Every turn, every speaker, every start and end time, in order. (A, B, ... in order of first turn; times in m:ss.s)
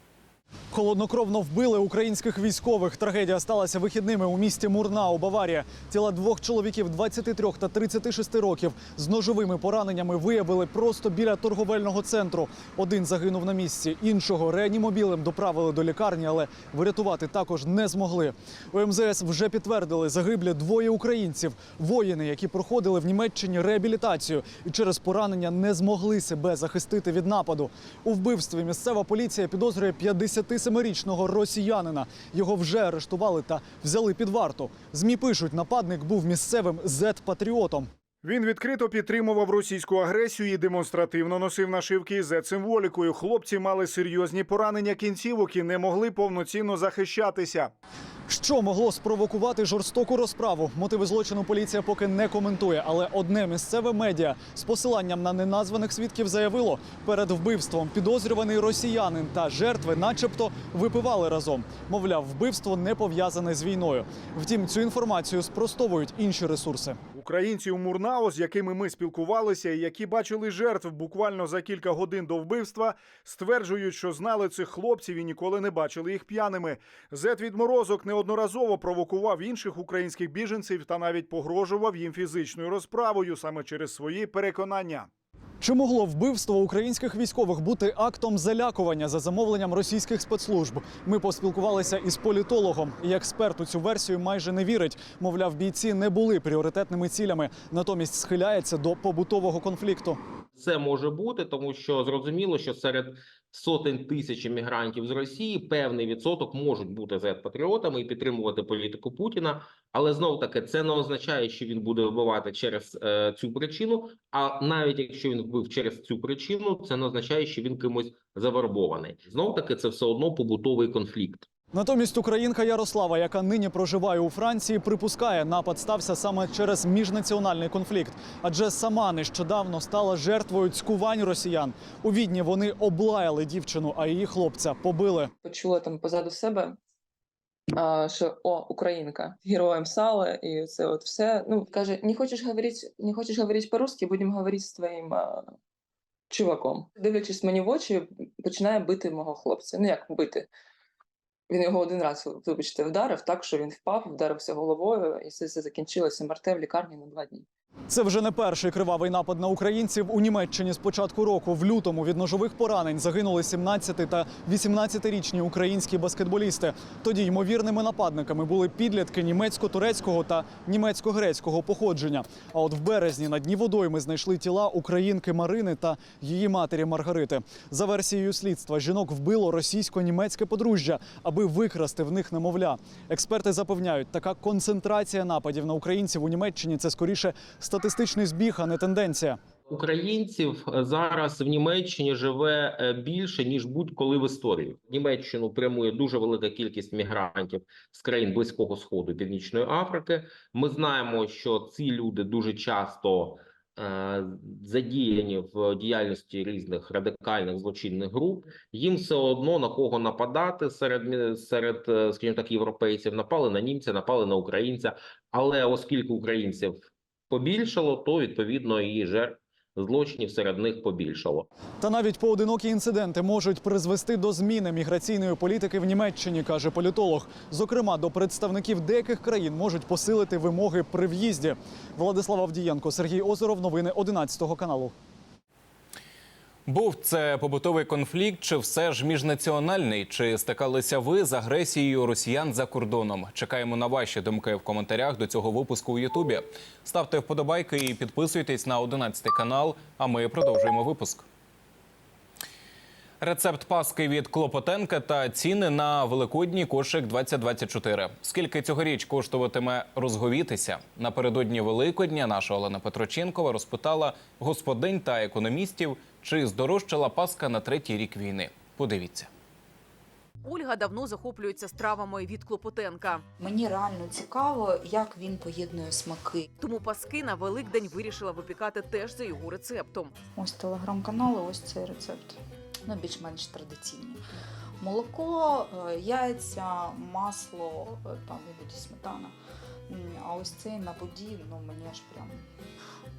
0:00.7-0:37.9 A
0:38.2-0:47.7 B
0:48.3-1:07.0 A
1:07.1-1:25.1 B
1:25.6-1:40.2 A
1:40.6-2:01.5 C
2:01.7-2:15.3 A
2:15.4-2:16.8 D
2:17.7-2:25.6 D
2:26.3-2:30.5 D
2:31.5-2:37.5 D
2:37.9-3:09.4 A
3:09.7-3:41.5 C
3:41.8-3:54.9 A
3:56.7-4:11.3 E
4:13.2-4:29.3 E
4:30.4-4:33.2 F
4:33.4-4:36.5 G
4:36.6-4:40.2 F
4:40.4-4:44.2 G
4:44.8-4:49.4 G
4:49.9-4:52.4 G